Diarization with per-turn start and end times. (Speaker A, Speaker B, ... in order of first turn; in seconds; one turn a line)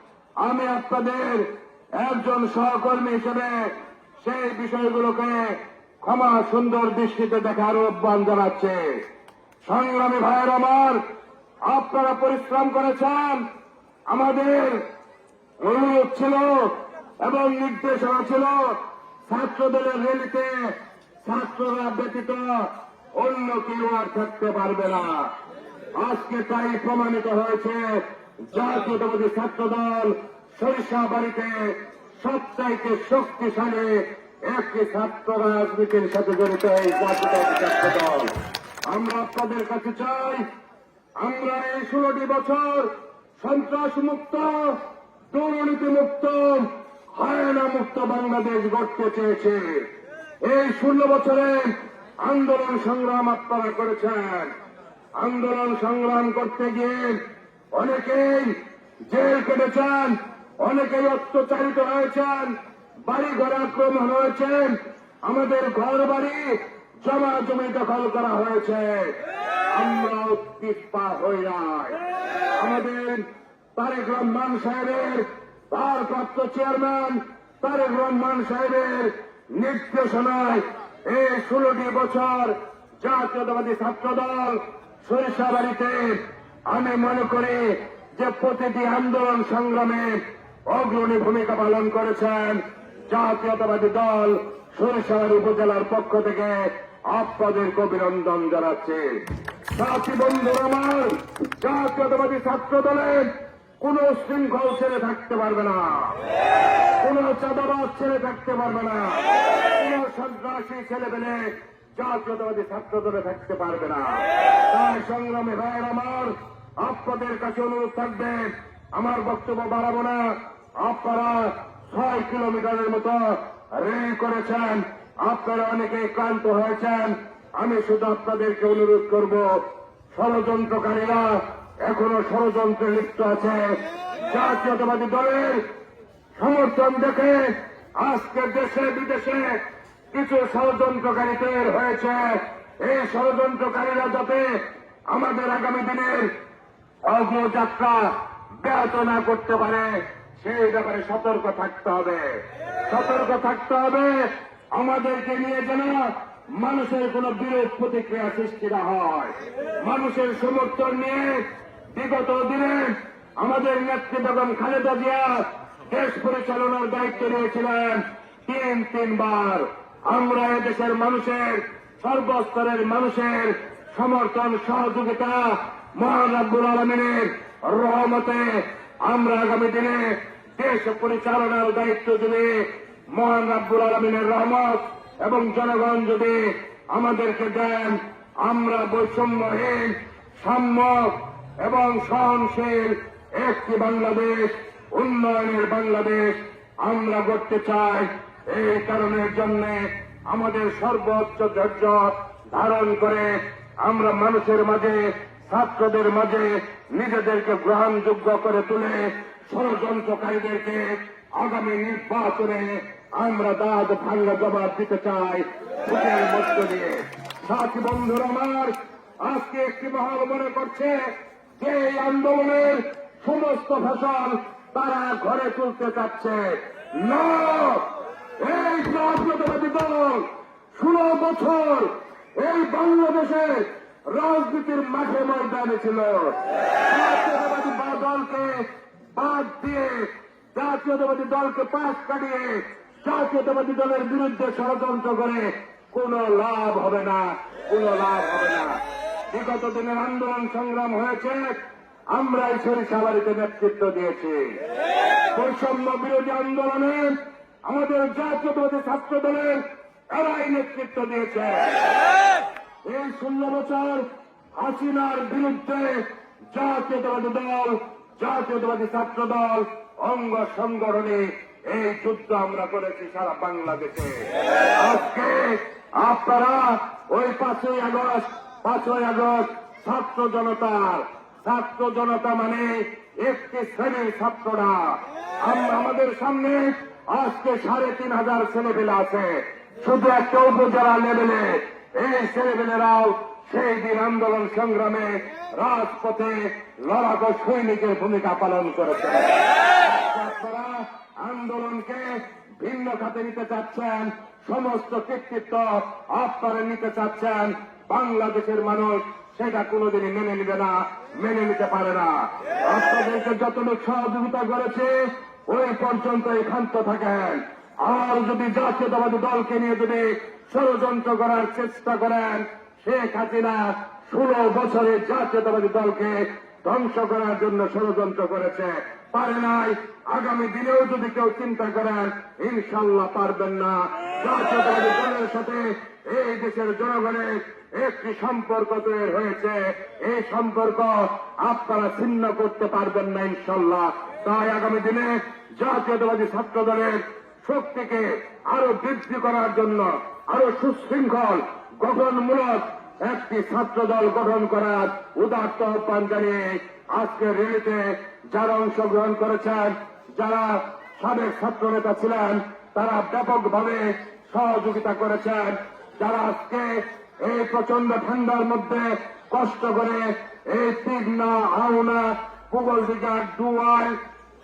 Speaker A: 0.4-8.8
Speaker A: 9.7-11.0
Speaker A: 11.7-13.4
Speaker A: 14.1-14.8
Speaker A: 15.6-25.3
Speaker A: 26.0-38.3
Speaker A: 38.9-40.5
Speaker A: 41.2-44.8
Speaker A: 45.3-49.9
Speaker A: 50.4-54.5
Speaker A: 55.2-57.2
Speaker A: 57.8-58.5
Speaker A: 59.1-62.5
Speaker A: 63.1-69.2
Speaker A: 69.7-99.0
Speaker A: 99.7-106.2
Speaker A: 107.0-135.6
Speaker A: 136.4-139.6
Speaker A: 140.1-144.5
Speaker A: 145.1-146.3
Speaker A: 147.1-152.3
Speaker A: 152.8-227.9
Speaker A: 228.4-251.6
Speaker A: 252.1-254.6
Speaker A: 255.3-261.8
Speaker A: 262.9-374.0